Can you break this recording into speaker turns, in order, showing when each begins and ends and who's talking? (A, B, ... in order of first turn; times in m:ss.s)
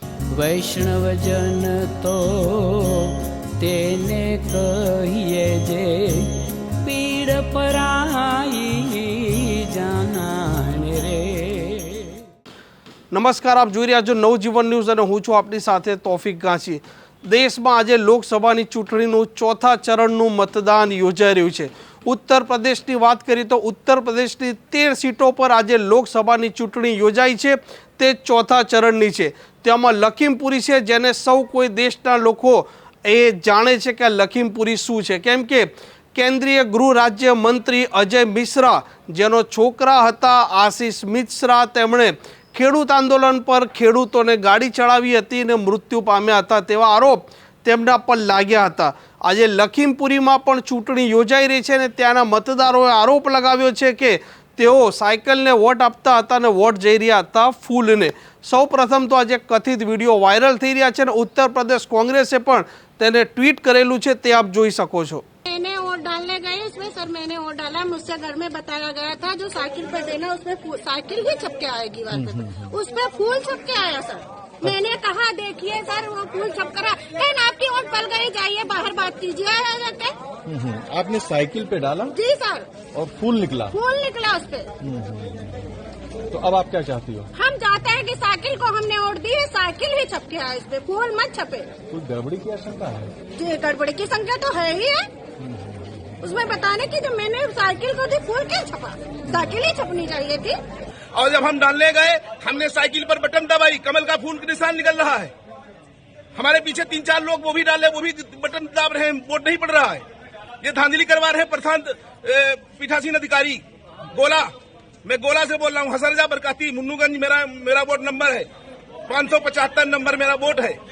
0:00.3-0:12.2 A
0:13.1-1:05.2 B
1:05.5-1:20.2 C
1:12.1-1:12.7 D
1:20.5-1:22.2 D
1:22.1-1:22.7 C
1:22.9-1:23.8 D
1:23.7-1:24.7 C
1:24.8-1:25.6 D
1:26.3-1:27.3 D
1:27.4-1:31.7 C
1:31.9-1:33.1 D
1:33.4-1:35.1 C
1:35.4-1:36.0 D
1:36.2-1:40.6 C
1:41.2-1:45.3 E
1:46.4-1:50.0 E
1:50.6-1:53.6 E
1:54.1-1:54.5 E
1:55.0-1:58.5 E
1:59.1-2:00.8 E